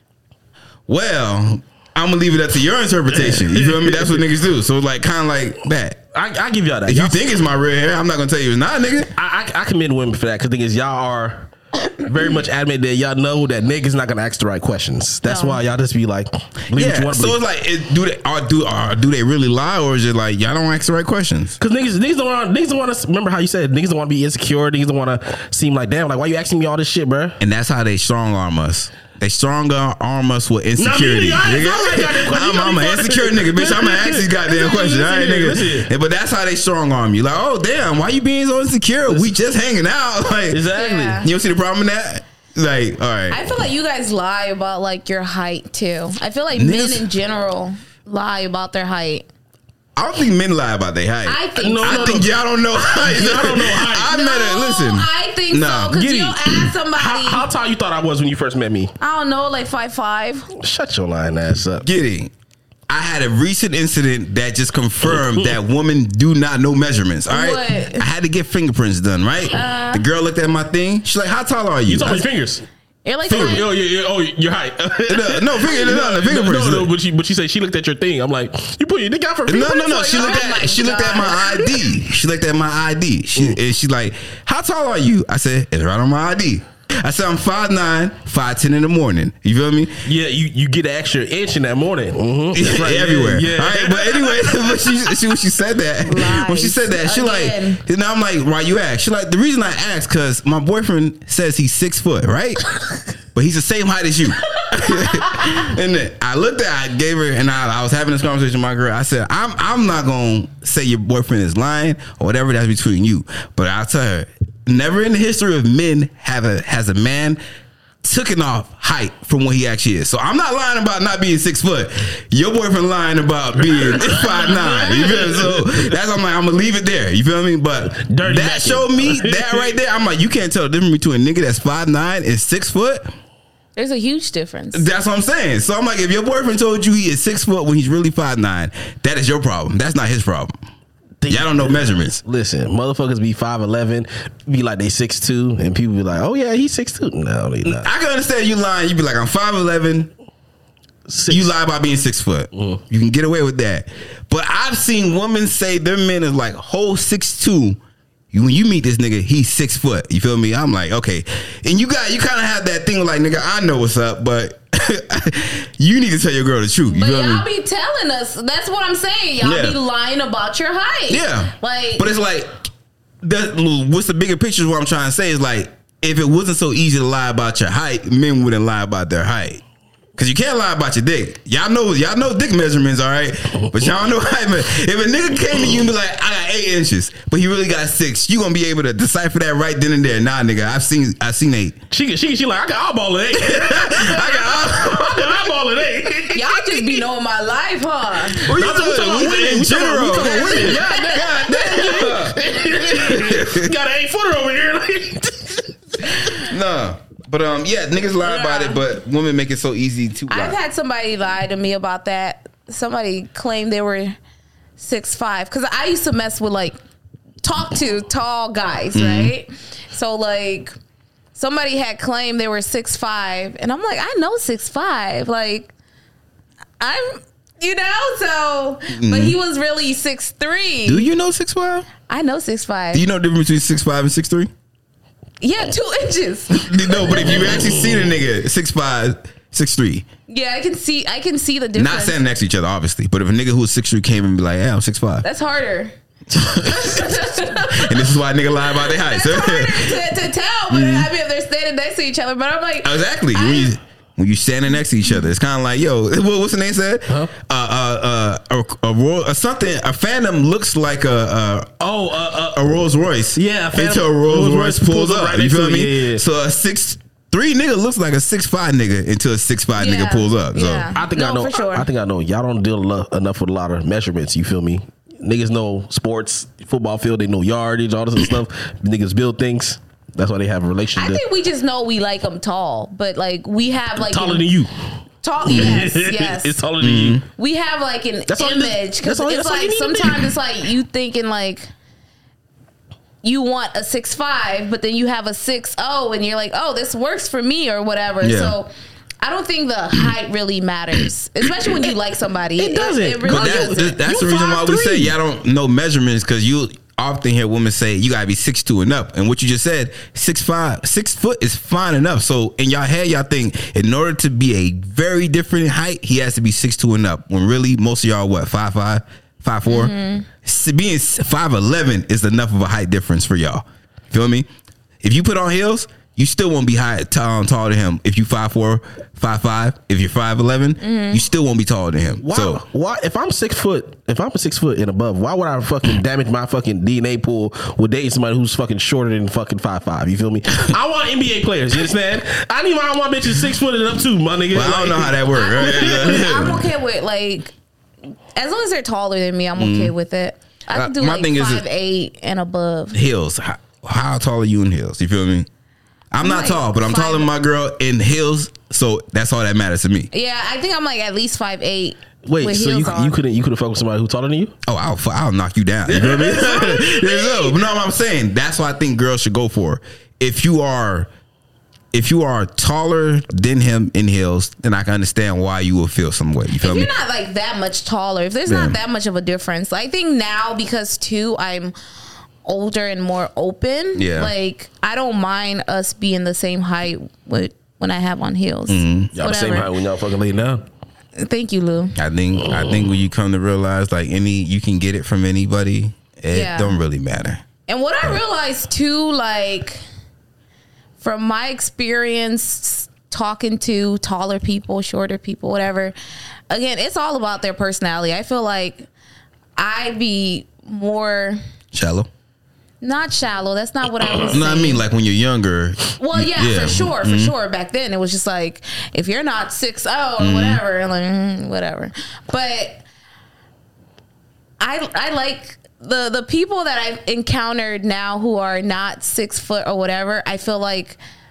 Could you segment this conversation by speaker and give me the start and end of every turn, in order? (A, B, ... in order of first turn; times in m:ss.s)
0:00.9-0:06.0 A
0:03.1-0:04.2 B
0:06.1-0:07.2 B
0:06.8-0:09.1 A
0:09.1-0:17.4 B
0:15.2-0:15.6 C
0:16.7-0:21.6 A
0:21.6-0:27.4 B
0:27.4-0:43.6 A
0:30.8-0:35.9 B
0:39.1-0:39.3 B
0:40.5-0:41.2 B
0:40.7-0:41.3 C
0:43.3-0:49.2 C
0:46.5-0:47.0 A
0:50.0-0:56.0 A
0:51.2-0:52.2 C
0:51.6-0:54.1 B
0:54.0-0:57.4 C
0:55.9-0:58.9 B
0:59.0-1:00.5 C
1:00.5-1:01.9 B
1:01.8-1:02.3 A
1:02.9-1:12.2 A
1:07.3-1:08.1 C
1:09.5-1:10.0 C
1:11.9-1:12.6 B
1:13.0-1:13.6 C
1:13.2-1:20.4 B
1:13.3-1:13.6 A
1:15.1-1:16.9 A
1:19.4-1:30.0 A
1:19.7-1:21.7 C
1:30.0-1:35.0 B
1:32.5-1:42.6 A
1:36.0-1:37.8 C
1:43.3-1:57.4 A
1:58.0-2:13.1 A
2:03.7-2:05.9 B
2:07.9-2:09.7 B
2:13.8-2:14.9 C
2:14.7-2:20.6 A
2:21.2-2:27.9 B
2:21.3-2:22.2 A
2:27.6-2:30.1 A
2:31.1-2:31.6 B
2:31.3-2:37.8 A
2:32.5-2:32.8 B
2:38.3-2:47.4 A
2:46.9-2:52.1 C
2:49.4-2:49.8 A
2:51.1-2:52.7 A
2:53.2-2:59.6 A
3:00.2-3:11.8 A
3:11.9-3:17.0 B
3:13.4-3:15.4 A
3:16.3-3:18.5 C
3:18.4-3:23.7 A
3:18.5-3:25.7 B
3:20.1-3:22.0 C
3:26.2-3:30.6 A
3:28.2-3:28.8 C
3:30.3-3:34.2 C
3:34.8-3:36.8 C
3:37.4-3:40.8 C
3:38.9-3:39.3 A
3:41.3-3:45.7 C
3:46.8-3:51.1 C
3:48.9-3:49.4 A
3:50.8-3:51.9 A
3:52.0-3:53.0 C
3:52.9-3:54.5 A
3:55.4-3:57.5 C
3:56.5-4:00.1 A
4:00.3-4:02.2 C
4:01.7-4:05.2 A
4:05.2-4:05.9 C
4:06.3-4:10.0 A
4:06.5-4:08.1 C
4:08.7-4:13.7 C
4:10.7-4:11.1 A
4:12.8-4:21.7 A
4:21.8-4:22.6 B
4:22.5-4:30.9 A
4:23.3-4:26.2 B
4:29.8-4:31.9 C
4:30.9-4:41.2 B
4:41.0-4:44.4 C
4:44.0-4:44.7 B
4:45.2-4:46.6 C
4:45.4-4:47.2 B
4:45.5-4:45.8 A
4:46.8-4:47.2 A
4:47.3-4:51.7 C
4:48.3-4:50.3 B
4:53.2-4:58.7 C
4:58.2-4:58.6 A
4:59.2-5:04.0 C
5:02.6-5:05.1 B
5:03.2-5:24.5 A
5:19.7-5:20.2 C
5:25.0-5:32.6 A
5:30.8-5:31.2 C
5:32.2-5:45.2 B
5:44.5-5:46.7 A
5:45.3-5:47.5 C
5:48.3-5:53.0 C
5:49.6-5:49.9 A
5:50.7-5:51.6 A
5:52.9-5:55.5 A
5:56.1-6:00.1 A
5:56.2-5:57.3 C
6:00.1-6:03.2 C
6:02.2-6:04.5 B
6:04.6-6:11.1 A
6:05.8-6:06.8 B
6:06.7-6:07.6 C
6:11.9-6:16.9 A
6:16.5-6:21.7 C
6:18.5-6:18.8 A
6:22.4-6:29.7 C
6:23.9-6:24.3 A
6:28.7-6:29.1 A
6:29.1-6:30.6 B
6:31.2-6:32.0 C
6:32.0-6:37.4 A
6:32.5-6:32.8 B
6:36.3-6:36.7 C
6:37.7-6:39.8 C
6:41.0-6:45.9 C
6:46.5-6:48.9 C
6:49.6-6:51.4 C
6:51.7-6:52.1 A
6:52.8-6:54.8 C
6:54.2-6:57.3 A
6:56.0-7:02.8 C
7:00.2-7:00.6 A
7:04.6-7:11.0 C